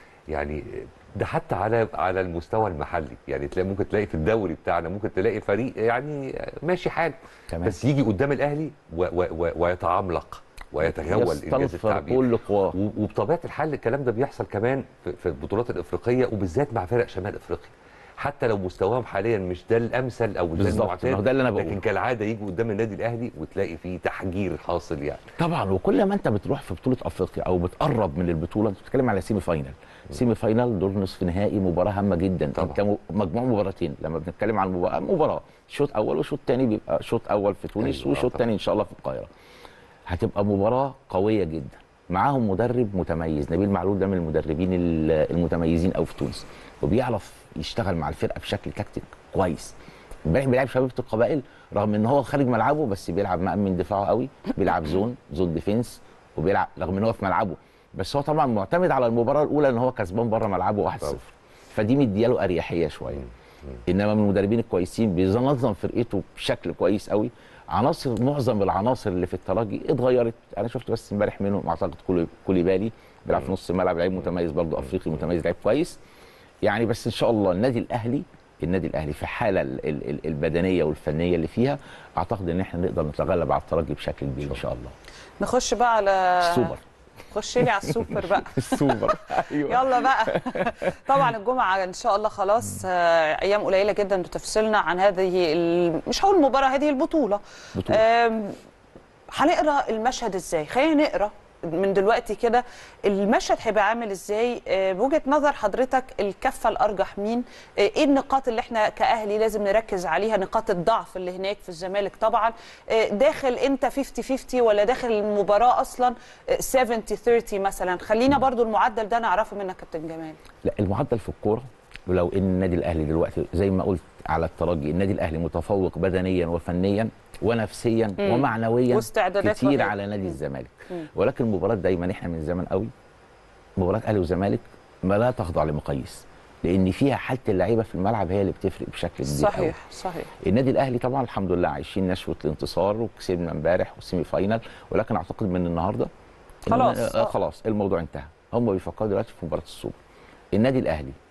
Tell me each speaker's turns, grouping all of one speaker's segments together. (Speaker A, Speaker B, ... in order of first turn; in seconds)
Speaker A: 0.3-12.2, 12.7-25.2, 37.9-38.3
Speaker B: 7.5-7.8, 10.8-12.8, 20.6-21.8, 25.4-39.3, 40.1-63.3, 63.9-76.0, 76.6-84.9, 86.4-86.8, 87.8-91.2, 97.8-98.0, 120.6-132.9, 133.8-139.8, 140.4-146.1, 146.7-150.0, 150.5-151.2
Speaker C: 85.4-86.8, 87.3-98.6, 99.3-120.4, 128.2-130.3, 139.2-140.3, 146.7-147.3